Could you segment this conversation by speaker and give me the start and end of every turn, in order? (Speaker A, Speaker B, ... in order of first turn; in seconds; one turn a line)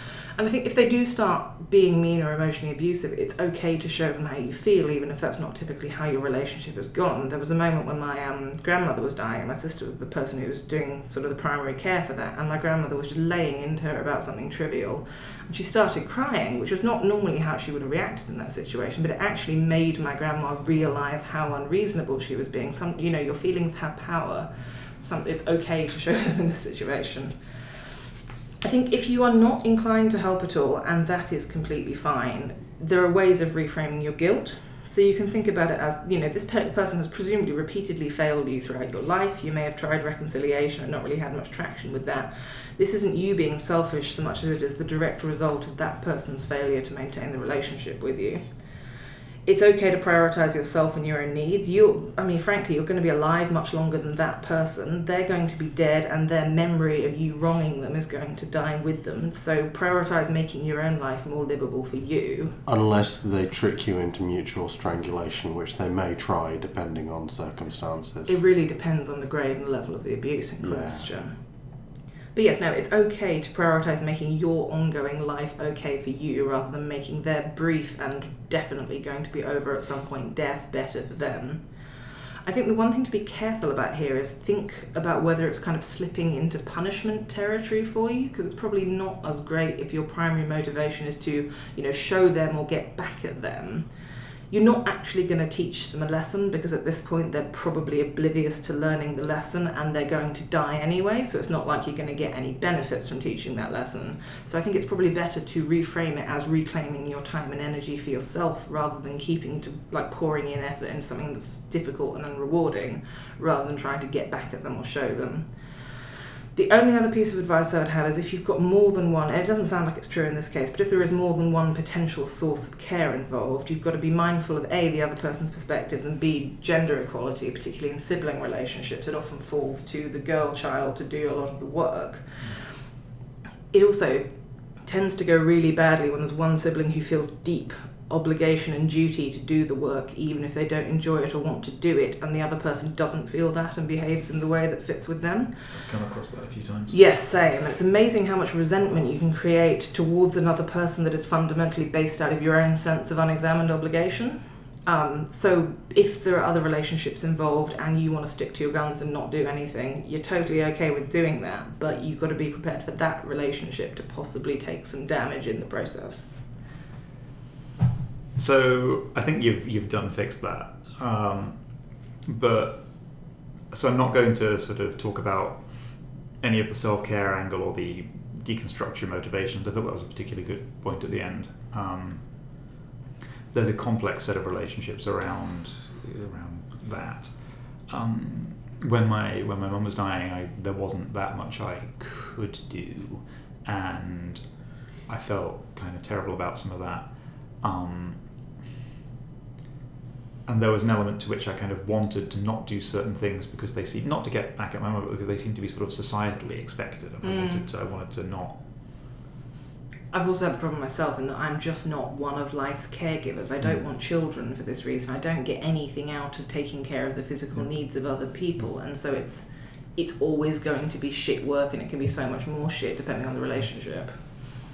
Speaker A: 0.3-27.4
Speaker A: 28.6-48.4
Speaker A: 49.4-62.6
Speaker B: 62.6-68.4
Speaker A: 68.3-71.4
Speaker B: 70.6-71.1
Speaker A: 72.3-81.6
Speaker A: 82.4-93.9
Speaker A: 94.5-115.9
Speaker A: 116.5-132.8
Speaker A: 133.7-134.3
Speaker A: 134.8-145.7
Speaker C: 145.7-147.0
Speaker A: 146.9-166.3
Speaker C: 168.3-171.6
Speaker C: 172.2-182.2
Speaker C: 183.5-187.3
Speaker C: 187.9-194.4
Speaker C: 195.1-197.1
Speaker C: 197.6-198.2
Speaker C: 200.4-208.6
Speaker A: 207.2-207.7
Speaker A: 210.1-224.2